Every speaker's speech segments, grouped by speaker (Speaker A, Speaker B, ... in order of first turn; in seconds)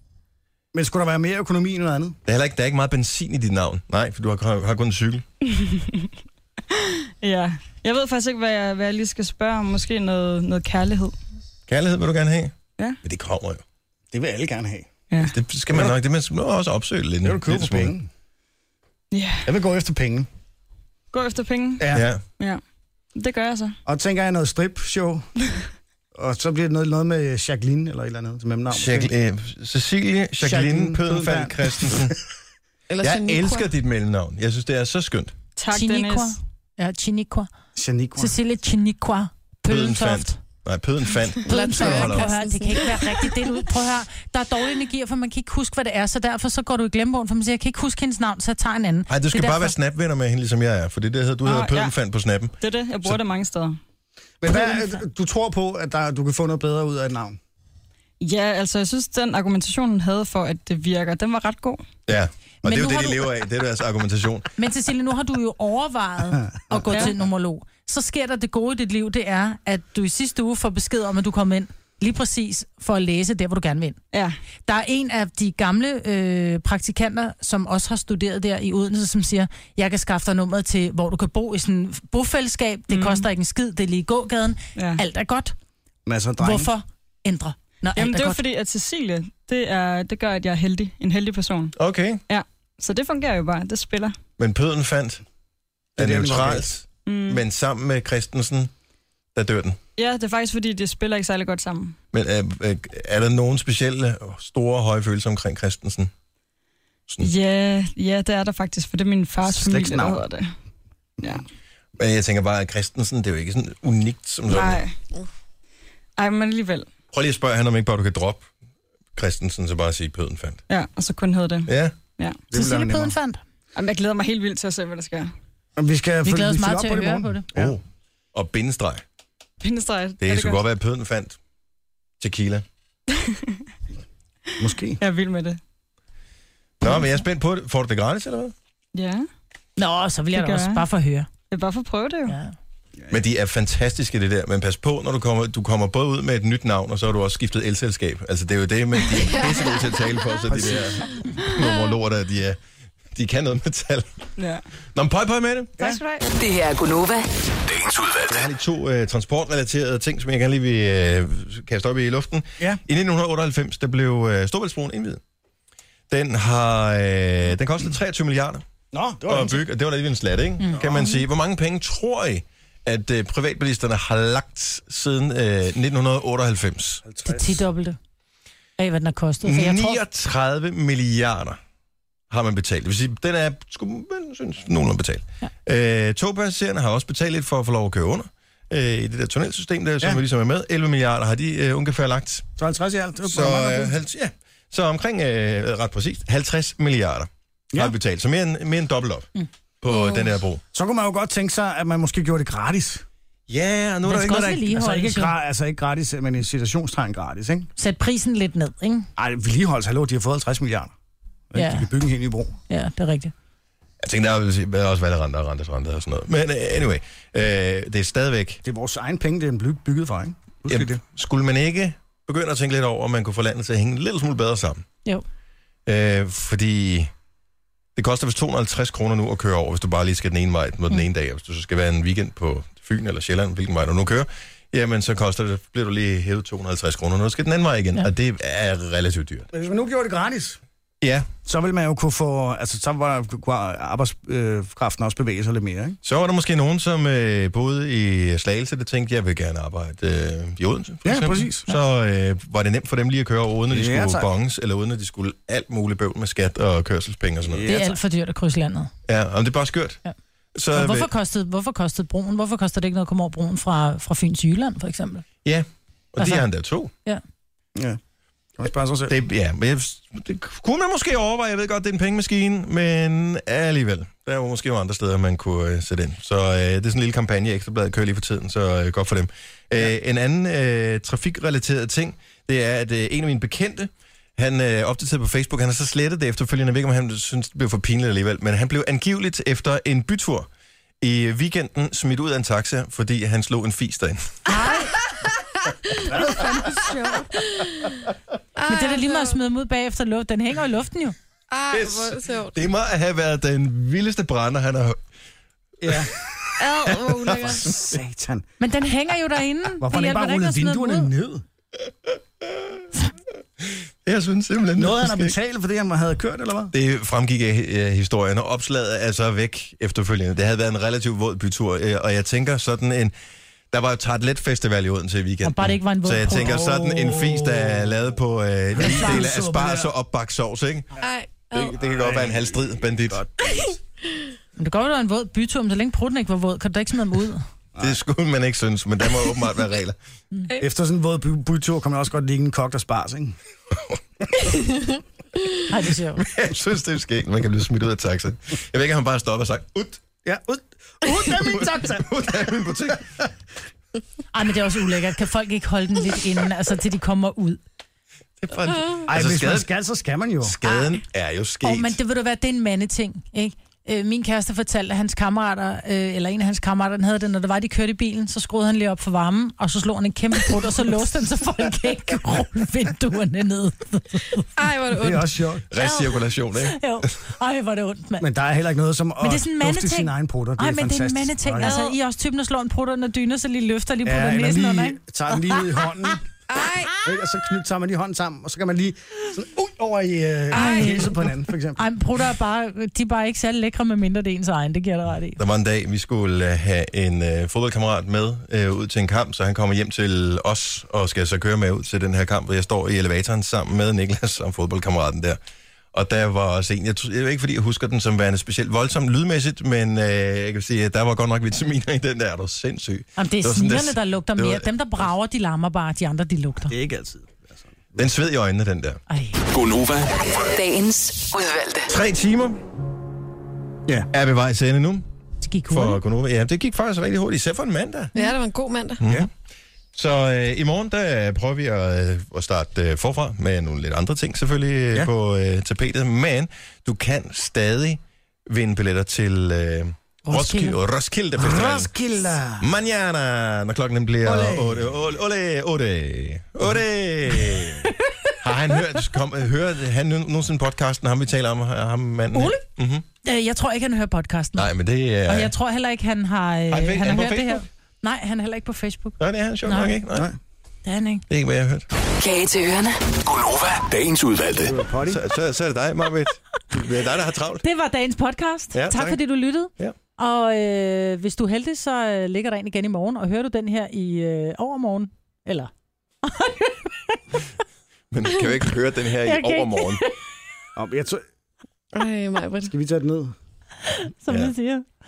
Speaker A: 0.7-2.2, 14.1-14.9, 17.2-18.1, 19.4-20.3, 21.8-22.1, 23.9-25.3, 26.1-29.1, 30.4-32.0, 37.7-38.4, 54.4-57.4, 86.0-86.7, 96.0-96.6, 109.4-110.2, 122.5-123.1, 125.8-127.8, 134.6-135.0, 150.5-151.0, 168.9-169.6, 177.0-177.5, 192.6-193.9, 200.7-203.0, 204.7-207.7, 209.2-210.9, 211.5-212.5, 218.6-221.0, 239.5-240.6, 241.4-246.0, 251.0-251.7, 253.7-254.3, 257.5-258.0, 268.6-269.1, 296.1-296.5, 305.8-306.1, 307.4-308.4, 309.8-311.4, 314.8-316.7, 326.3-328.0, 328.8-329.9, 331.8-332.5, 340.6-343.4, 350.2-352.1, 359.1-360.6, 375.0-375.6, 378.2-381.7, 384.0-386.2, 387.0-391.8, 416.7-418.0, 441.4-442.7, 444.2-444.9, 464.6-465.2, 480.8-481.2, 482.7-483.3
Speaker B: 2.2-5.2, 11.7-13.6, 15.2-17.9, 21.9-22.2, 28.7-32.1, 33.0-35.3, 39.7-42.3, 49.1-53.2, 62.1-64.5, 91.8-92.2, 94.4-95.2, 96.0-98.7, 99.3-99.8, 102.1-106.1, 112.0-114.8, 117.1-118.5, 119.1-120.6, 121.7-122.0, 127.5-127.8, 128.3-129.0, 130.2-131.4, 132.2-132.6, 136.8-138.5, 143.1-152.6, 153.1-154.1, 154.9-155.8, 158.3-165.2, 166.1-168.6, 169.2-177.0, 179.4-181.6, 182.3-192.4, 193.2-199.3, 199.8-200.6, 203.5-204.6, 214.0-218.6, 220.7-224.8, 225.8-227.1, 227.9-239.5, 241.0-241.3, 246.0-257.7, 259.1-260.0, 260.5-261.1, 265.4-266.9, 269.1-290.5, 291.0-294.4, 301.7-305.0, 305.9-308.0, 312.4-312.8, 313.6-315.4, 316.7-323.1, 323.7-330.9, 331.5-333.6, 337.8-340.0, 346.1-350.0, 351.4-353.3, 358.4-359.7, 360.4-361.9, 375.7-377.0, 395.4-405.4, 405.9-414.7, 418.0-419.0, 421.9-422.6, 424.1-425.0, 425.7-428.1, 429.0-429.3, 429.9-441.9, 442.6-453.0, 454.6-455.5, 456.7-457.6, 459.2-460.3, 461.3-461.9, 465.0-467.6, 468.7-469.2, 478.1-480.0
Speaker C: 5.5-6.1, 6.7-11.2, 19.1-19.5, 21.1-22.6, 23.1-23.8, 35.5-36.4, 51.4-51.9, 52.6-53.8, 58.2-61.8, 82.9-83.3, 84.8-85.0, 87.9-91.7, 92.3-94.2, 97.0-97.4, 100.0-102.0, 107.2-110.5, 114.5-115.0, 116.2-116.9, 120.7-122.4, 123.7-125.3, 129.6-130.6, 133.1-133.6, 134.6-135.6, 138.9-139.3, 140.3-140.8, 141.5-142.4, 154.4-154.6, 155.8-156.3
Speaker D: 32.9-33.7, 41.5-43.3, 149.3-149.8, 199.9-200.3, 296.0-296.5, 298.6-299.4, 301.5-302.7, 306.6-307.7, 331.0-331.8, 333.4-333.8, 374.6-375.3, 386.5-387.0, 390.5-391.1, 428.1-429.0, 481.9-482.7
Speaker E: 35.7-37.5, 38.2-40.4, 41.5-49.8, 54.5-55.0, 62.6-63.3, 64.6-74.0, 74.7-85.5, 86.4-88.4, 122.5-123.4, 126.2-127.5, 139.8-141.3, 142.3-142.5, 170.6-171.2, 177.2-178.0, 178.8-180.0, 204.1-205.3, 207.8-209.1, 211.5-211.9, 212.7-213.3, 257.6-258.9, 260.7-265.2, 266.2-266.4, 294.5-294.9, 296.5-297.2, 298.7-301.1, 308.6-311.1, 325.4-326.6, 328.8-329.2, 334.6-337.4, 345.7-346.2, 354.3-357.6, 361.6-374.5, 375.8-378.3, 379.2-385.6, 390.5-391.2, 391.8-395.4, 413.2-416.7, 419.1-419.4, 425.4-426.0, 440.2-440.8, 452.3-452.6, 453.2-454.7, 455.2-460.0, 460.9-461.2, 467.6-475.7, 476.2-477.1, 479.2-480.1, 483.8-484.8
Speaker F: 156.4-157.3, 420.5-421.9, 462.2-463.1
Speaker G: 157.7-158.4, 419.5-420.5, 463.2-464.8